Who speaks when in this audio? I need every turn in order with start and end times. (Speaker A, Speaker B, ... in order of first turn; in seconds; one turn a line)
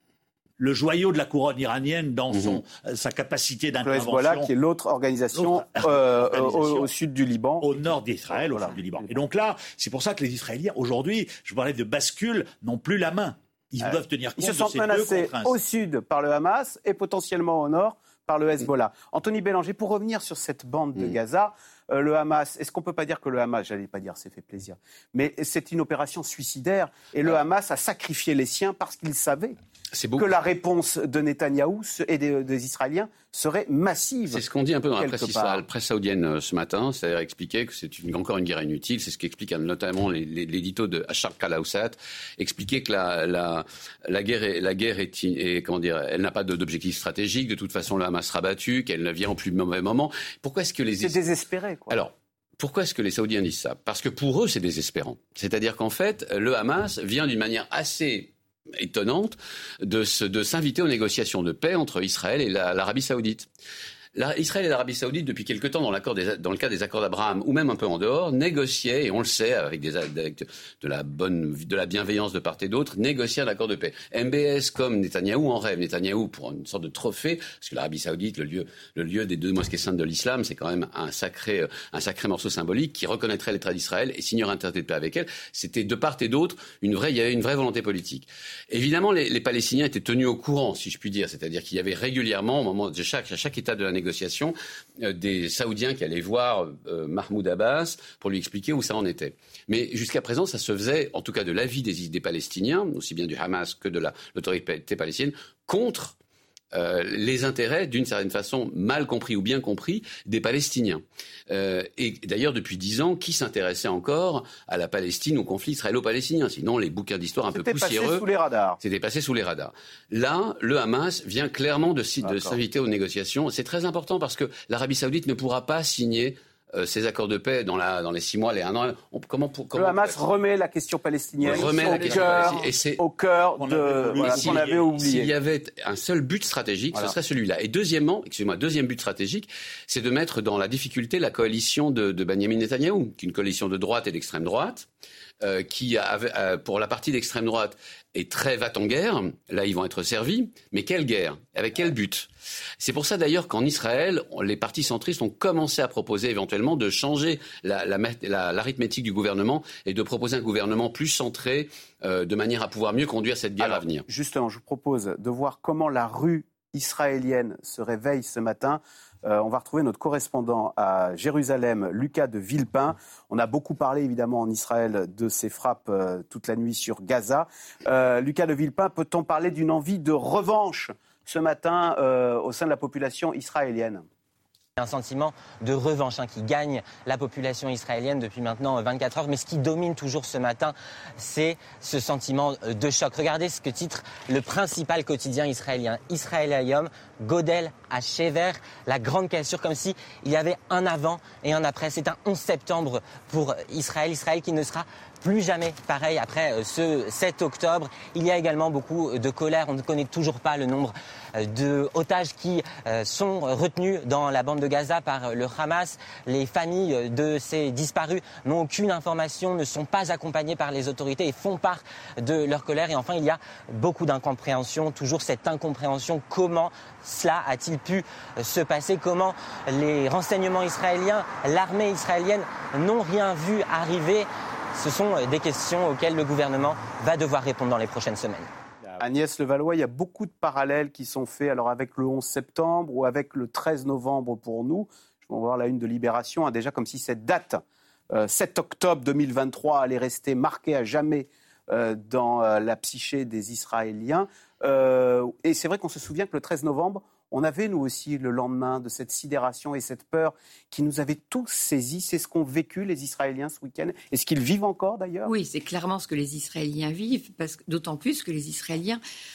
Speaker A: 0.6-4.5
Speaker B: 3.8-7.6
Speaker A: 5.3-6.9
Speaker A: 7.6-15.6
Speaker B: 8.3-9.1
Speaker B: 13.8-29.6
Speaker C: 29.9-30.4
Speaker B: 30.1-34.4
Speaker C: 34.3-51.2
Speaker B: 35.0-35.6
Speaker B: 51.0-51.9
Speaker C: 51.9-63.5
Speaker C: 64.1-106.2
Speaker C: 106.7-118.2
Speaker B: 117.5-118.8
Speaker C: 118.8-130.2
Speaker B: 122.2-122.6
Speaker B: 129.7-135.3
Speaker C: 131.4-133.0
Speaker A: 133.6-134.9
Speaker C: 134.2-144.9
Speaker C: 145.4-152.3
Speaker C: 152.8-164.0
Speaker B: 163.6-184.0
Speaker D: 184.8-238.5
Speaker B: 239.0-265.3
Speaker E: 265.2-269.0